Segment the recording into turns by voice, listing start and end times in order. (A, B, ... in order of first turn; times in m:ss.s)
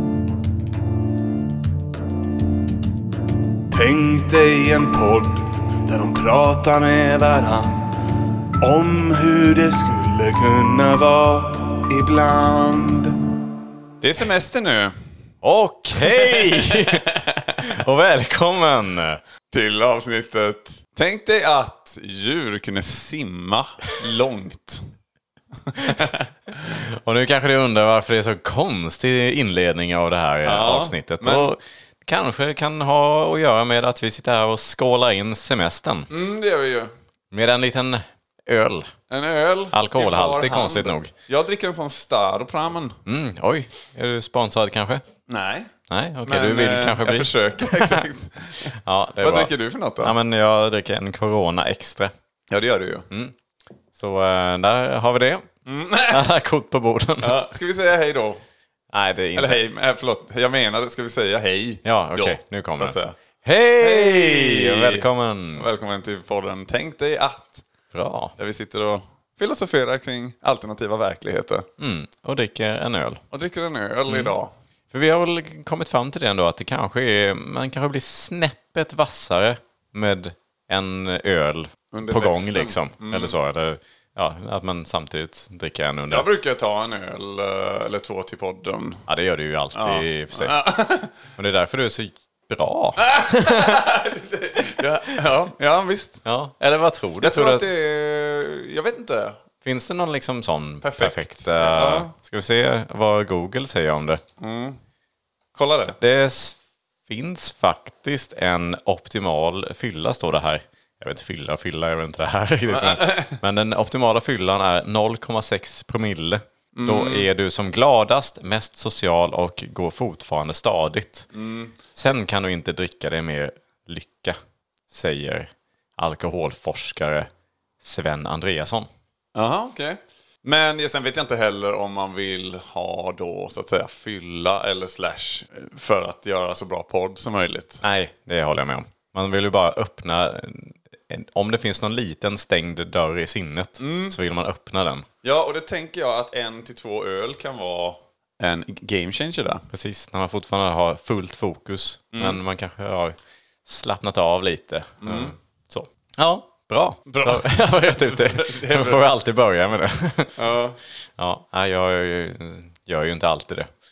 0:03.7-0:07.8 A
0:08.6-0:13.2 A
0:14.0-0:14.9 B
0:15.4-0:17.1 C
0:16.0-0:17.6 B
0:17.6-0:19.2 C
0:19.5-0:24.9 B
0:25.7-0:26.2 B
0:25.7-0:26.1 C
0:26.7-0:36.1 C
0:30.4-0:31.5 B
0:36.1-0:36.9 B
0:37.3-0:38.9 C
0:39.1-0:43.0 B
0:39.7-0:41.1 C
0:43.0-0:45.0 C
0:45.3-0:45.7 B
0:45.9-0:48.0 C
0:46.2-0:50.1 B
0:48.7-0:52.1 C
0:52.5-0:53.1 B
0:53.1-0:53.3 C
0:53.9-0:55.5 C
0:55.6-0:56.3 B
0:56.1-0:57.4 C
0:57.2-0:58.4 B
0:58.9-0:59.6 C
0:59.4-1:03.2 B
1:01.8-1:05.7 C
1:03.8-1:07.6 B
1:07.9-1:08.3 C
1:08.4-1:11.7 B
1:11.8-1:13.2 C
1:13.3-1:14.5 B
1:14.1-1:14.3 C
1:14.9-1:26.4 C
1:21.9-1:23.4 B
1:26.1-1:29.1 B
1:29.1-1:30.6 C
1:29.7-1:31.2 B
1:31.4-1:33.8 C
1:33.0-1:36.2 B
1:36.2-1:37.7 C
1:37.2-1:39.4 B
1:39.6-1:44.2 C
1:40.8-1:42.1 B
1:44.4-1:44.8 B
1:45.5-1:46.0 B
1:46.0-2:01.3 C
1:52.7-1:53.4 B
1:56.7-1:57.3 B
2:01.3-2:01.7 B
2:01.9-2:04.4 C
2:04.9-2:07.3 C
2:07.8-2:08.9 C
2:09.3-2:17.8 B
2:17.8-2:25.0 C
2:23.8-2:24.2 B
2:25.2-2:29.7 B
2:29.7-2:40.4 C
2:32.1-2:32.4 B
2:35.0-2:35.3 B
2:37.1-2:39.0 B
2:40.4-2:40.8 B
2:41.0-2:43.7 C